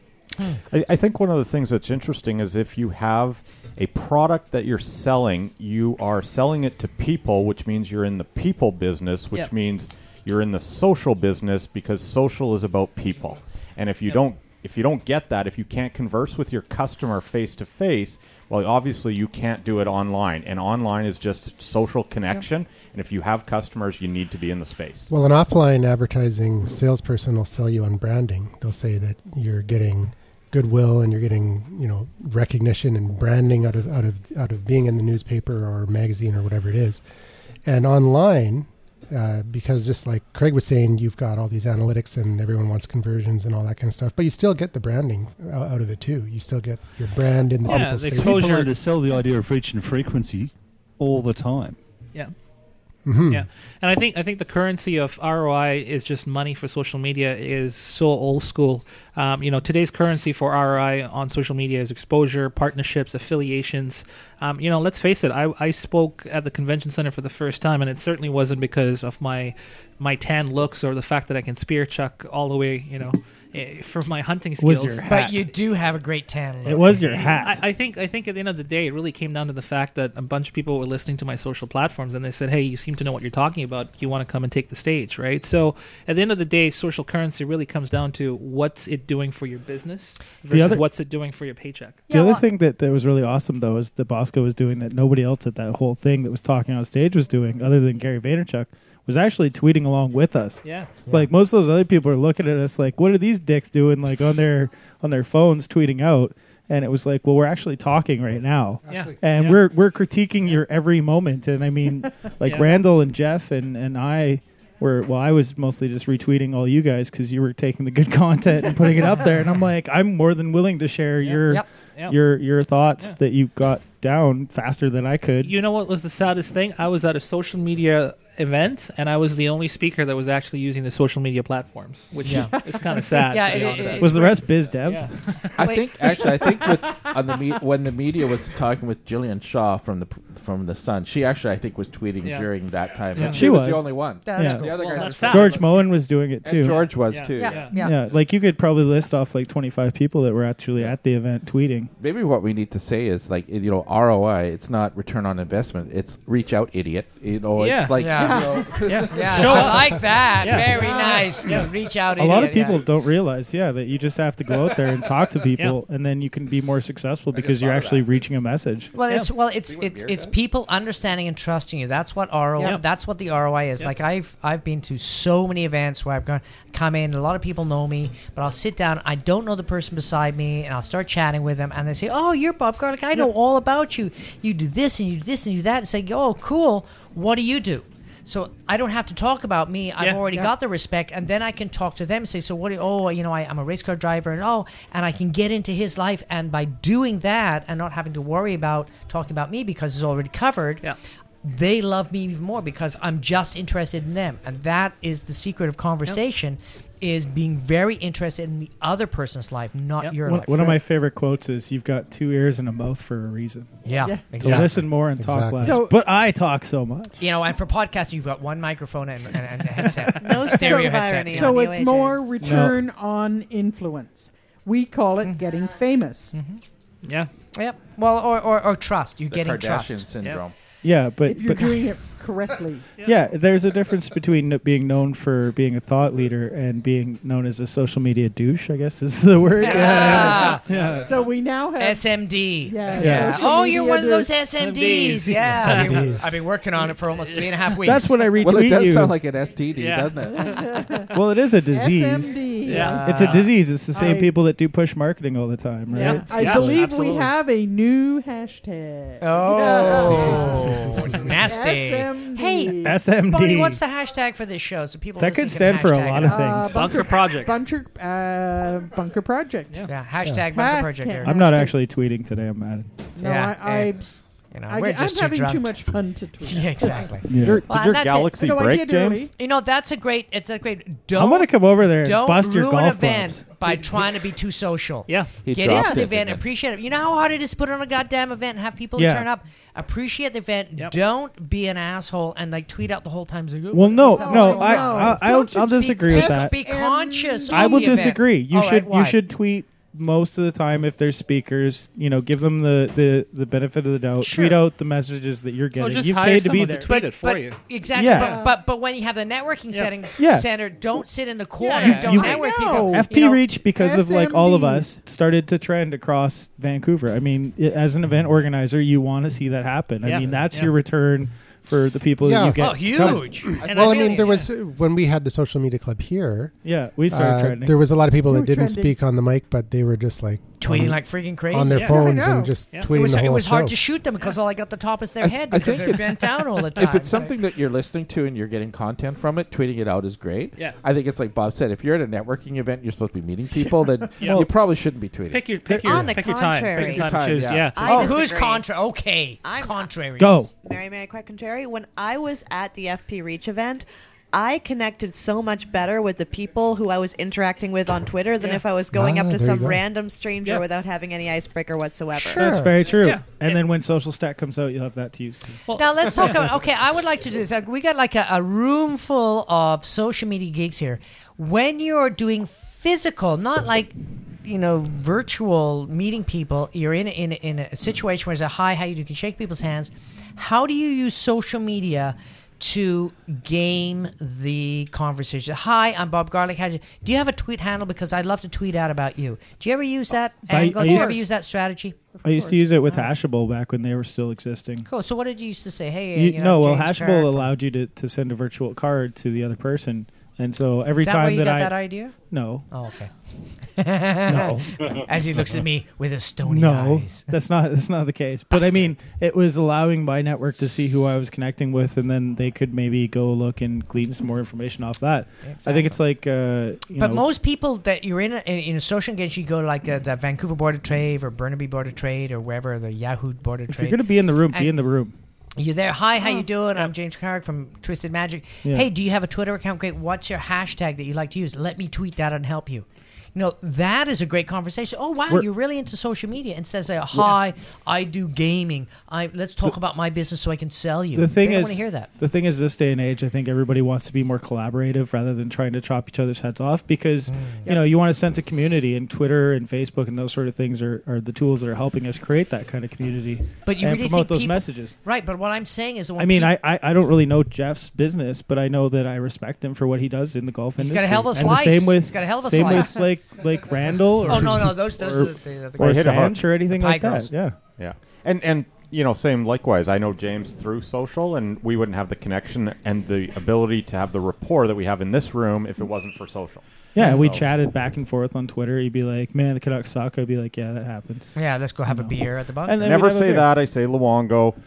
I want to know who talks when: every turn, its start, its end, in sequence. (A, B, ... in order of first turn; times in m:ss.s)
0:00.7-0:25.1 A
0:25.1-0:37.0 B
0:37.6-0:48.6 B
0:47.6-0:48.8 C
0:47.7-0:51.8 D
0:53.1-0:53.5 B
0:53.3-1:15.3 C
1:14.6-1:15.3 E
1:15.1-1:17.2 F
1:16.6-1:17.6 E
1:16.9-1:32.1 C
1:30.5-1:30.8 E
1:32.1-1:32.4 F
1:32.1-2:05.5 E
1:40.6-1:41.0 C
1:48.9-1:49.2 B
1:48.9-1:49.7 C
1:52.4-1:52.8 C
2:01.2-2:02.2 C
2:05.4-2:15.6 C
2:12.2-2:12.6 F
2:12.7-2:13.1 G
2:13.1-2:14.4 F
2:14.0-2:15.1 E
2:15.6-2:25.8 H
2:15.6-2:15.9 F
2:16.2-2:17.1 G
2:22.2-2:22.5 C
2:23.1-2:23.5 C
2:23.3-2:24.7 E
2:24.2-2:25.4 F
2:24.8-2:25.6 C
2:25.3-2:26.9 E
2:26.4-2:27.7 H
2:27.0-2:27.9 C
2:27.4-2:28.0 F
2:27.8-2:31.9 E
2:32.0-2:39.8 H
2:37.6-2:38.0 C
2:38.0-2:38.6 F
2:38.1-2:38.8 G
2:38.7-2:41.7 C
2:39.1-2:42.8 F
2:40.8-2:41.6 G
2:42.2-2:48.9 E
2:47.3-2:48.1 H
2:48.9-3:20.8 F
2:49.6-2:50.3 H
3:10.0-3:10.2 C
3:21.4-3:30.8 F
3:30.3-3:33.7 E
3:33.8-3:34.8 F
3:34.0-3:34.4 G
3:34.4-3:37.2 E
3:34.4-3:35.8 B
3:35.6-3:36.0 G
3:37.2-3:41.6 F
3:40.2-3:42.3 I
3:40.7-3:46.4 G
3:42.4-3:42.8 E
3:46.3-3:46.6 F
3:47.0-3:47.3 C
3:47.6-3:50.0 F
3:49.3-3:50.5 H
3:50.8-3:51.9 E
3:51.3-3:52.9 G
3:53.0-3:53.3 C
3:53.0-4:01.2 E
3:59.6-4:00.6 F
3:59.7-4:04.4 G
3:59.9-4:01.0 C
4:01.8-4:08.2 F
4:03.0-4:03.5 E
4:04.6-4:06.1 C
4:05.5-4:06.3 B
4:07.3-4:08.0 C
4:07.8-4:09.2 E
4:08.4-4:10.6 H
4:09.7-4:10.6 C
4:10.3-4:11.1 G
4:11.1-4:16.8 E
4:11.7-4:13.3 G
4:12.6-4:13.5 C
4:12.7-4:13.5 F
4:13.9-4:14.4 G
4:15.9-4:23.0 G
4:15.9-4:17.3 C
4:19.2-4:26.7 F
4:19.9-4:21.3 B
4:22.8-4:23.8 E
4:25.2-4:27.0 E
4:26.2-4:29.8 G
4:26.7-4:27.6 C
4:29.9-4:31.5 F
4:30.5-4:31.8 G
4:31.2-4:32.9 E
4:33.2-4:34.1 G
4:33.2-4:34.0 F
4:34.5-4:35.8 F
4:34.7-4:37.2 G
4:36.4-4:38.3 F
4:37.3-4:37.6 E
4:37.4-4:39.3 A
4:38.3-4:39.3 G
4:39.4-4:59.2 F
4:41.2-4:43.5 E
4:45.1-4:45.4 C
4:45.4-4:46.4 H
4:45.7-4:46.1 G
4:49.0-4:49.3 E
4:53.7-4:56.6 E
4:54.0-4:58.2 G
4:57.5-5:06.9 E
5:04.2-5:04.6 F
5:05.8-5:07.6 C
5:06.9-5:13.4 F
5:08.0-5:08.4 E
5:08.2-5:08.6 G
5:10.2-5:10.5 E
5:11.6-5:12.4 C
5:11.8-5:23.3 E
5:12.2-5:13.2 G
5:13.8-5:14.9 G
5:20.0-5:20.8 C
5:22.2-5:26.6 B
5:22.6-5:24.4 F
5:23.6-5:24.5 C
5:26.6-5:27.8 E
5:27.1-5:33.8 B
5:28.2-5:29.0 G
5:30.6-5:32.0 F
5:31.7-5:32.1 C
5:31.8-5:32.6 G
5:32.9-5:37.4 F
5:35.2-5:45.5 H
5:44.2-5:44.5 C
5:45.3-5:48.1 C
5:45.7-5:46.2 E
5:45.8-5:47.2 I
5:46.8-5:47.8 H
5:47.7-5:48.7 I
5:47.8-5:50.5 F
5:49.4-5:49.9 I
5:50.2-5:50.5 E
5:50.6-6:02.5 I
5:58.9-5:59.8 B
6:00.4-6:00.7 C
6:02.2-6:02.8 F
6:02.4-6:05.6 E
6:02.8-6:03.7 C
6:05.7-6:06.5 C
6:05.8-6:32.0 F
6:30.5-6:31.2 E
6:30.5-6:31.3 G
6:32.2-6:32.7 G
6:32.2-6:34.9 E
6:34.9-6:37.5 F
6:36.2-6:41.8 E
6:41.0-6:42.2 F
6:42.3-6:42.6 E
6:42.7-6:43.1 F
6:43.8-6:47.3 F
6:44.2-6:44.7 E
6:46.4-6:57.3 E
6:48.5-6:49.0 F
6:55.4-6:56.0 F
6:57.0-7:04.7 F
7:03.7-7:05.1 E
7:05.6-7:22.1 F
7:21.2-7:34.9 E
7:27.3-7:27.7 F
7:27.7-7:27.9 G
7:33.6-7:36.6 F
7:36.2-7:47.6 E
7:40.8-7:43.0 F
7:44.3-7:47.3 F
7:45.8-7:46.4 A
7:47.8-7:57.5 A
7:56.9-8:01.3 E
8:01.4-8:02.8 F
8:01.9-8:03.5 E
8:02.8-8:04.6 A